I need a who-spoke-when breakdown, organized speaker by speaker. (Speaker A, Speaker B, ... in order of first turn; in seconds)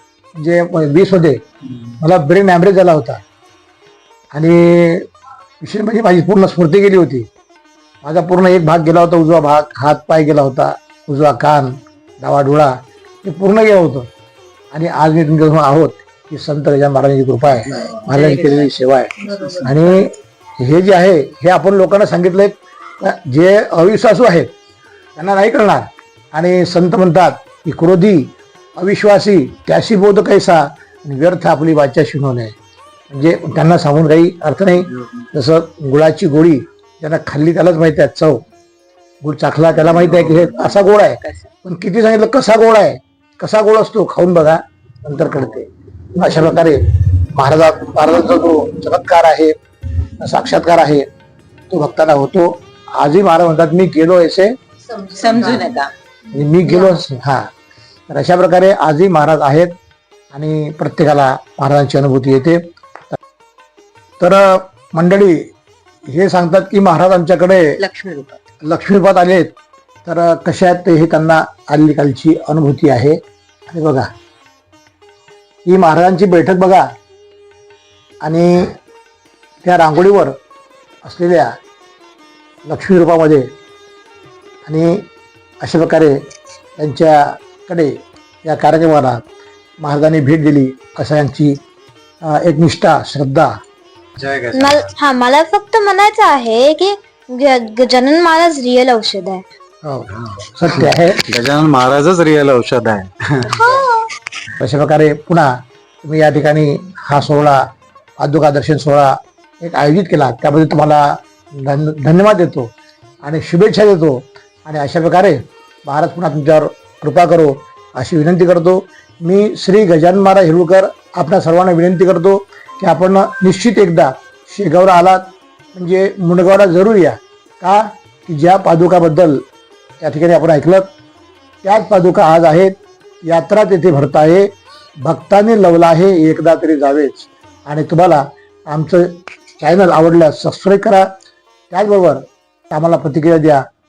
Speaker A: 0.4-3.2, 4.3-5.1, 5.6-7.3, 8.0-14.1, 14.7-24.5, 25.1-32.5, 33.1-38.4, 39.2-49.5, 50.2-51.1, 51.7-54.5, 56.3-57.5, 58.1-59.8, 60.3-62.6, 64.2-65.5, 66.1-67.8, 68.6-69.5, 70.0-74.1, 75.7-76.9, 78.2-78.8, 79.6-80.3, 81.0-81.5, 82.7-83.5, 84.6-85.1, 85.6-86.2, 86.8-89.2, 89.8-91.6, 92.2-93.5, 99.8-101.3, 104.6-107.6, 108.2-112.7, 113.2-129.4, 130.0-130.9, 131.6-134.5, 135.0-141.1, 141.7-143.7
Speaker B: 18.0-18.7, 19.3-19.6, 40.8-41.5, 55.1-55.9, 67.8-68.4
Speaker C: 94.2-94.9, 100.8-103.5
Speaker D: 94.5-99.4, 103.5-104.1